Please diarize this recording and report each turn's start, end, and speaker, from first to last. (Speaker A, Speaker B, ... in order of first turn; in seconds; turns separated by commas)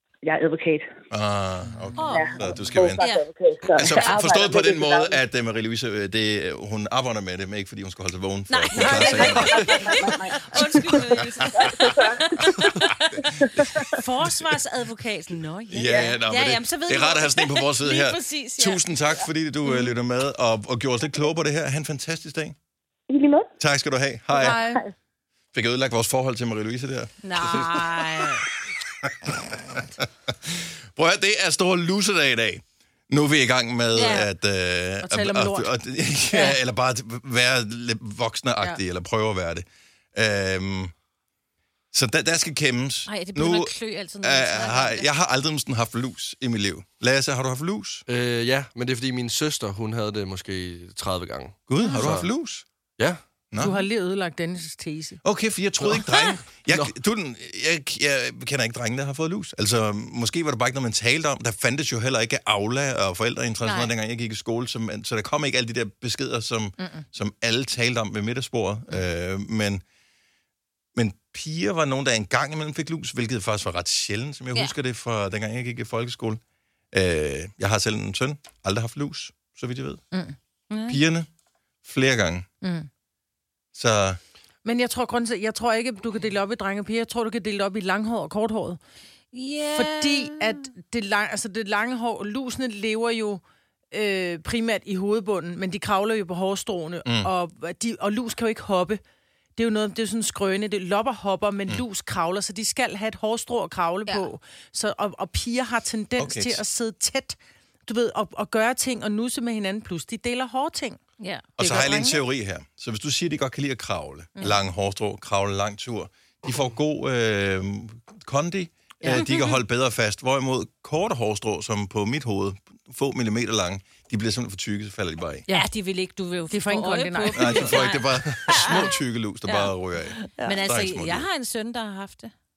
Speaker A: 0.2-0.9, Speaker B: 1.1-3.0, Speaker C: 2.0-2.4, Speaker A: 2.1-5.2, Speaker C: 3.0-3.2, Speaker B: 3.8-9.9, Speaker C: 3.8-4.2, Speaker C: 8.5-13.3, Speaker A: 8.8-12.4, Speaker B: 10.9-11.7, Speaker A: 13.4-13.9, Speaker C: 13.9-18.8, Speaker D: 14.2-14.6, Speaker B: 15.7-22.6, Speaker A: 23.1-23.5, Speaker B: 23.6-24.6, Speaker D: 24.3-24.8, Speaker B: 25.5-27.9, Speaker C: 27.2-28.4, Speaker B: 29.0-40.9, Speaker C: 33.9-34.3, Speaker D: 35.0-35.7, Speaker B: 41.9-48.0, Speaker C: 43.1-45.1, Speaker E: 48.1-52.3, Speaker B: 51.7-52.6, Speaker C: 51.8-52.1, Speaker B: 53.5-53.8, Speaker D: 53.6-55.2, Speaker B: 55.2-69.8, Speaker E: 55.8-56.9, Speaker D: 66.8-67.0, Speaker B: 70.9-76.4, Speaker B: 76.9-80.0, Speaker C: 80.7-81.0, Speaker B: 80.9-81.3, Speaker B: 81.8-82.5, Speaker D: 82.6-82.9, Speaker B: 83.7-84.2, Speaker D: 84.6-88.8, Speaker C: 89.3-90.7, Speaker D: 89.7-99.0, Speaker B: 97.0-97.3, Speaker D: 99.5-111.0, Speaker B: 106.2-106.6, Speaker C: 111.2-112.0, Speaker B: 111.6-125.4, Speaker D: 111.6-112.2, Speaker D: 119.0-119.2, Speaker C: 119.1-119.5, Speaker C: 125.5-132.3, Speaker D: 126.5-127.7, Speaker B: 127.3-131.3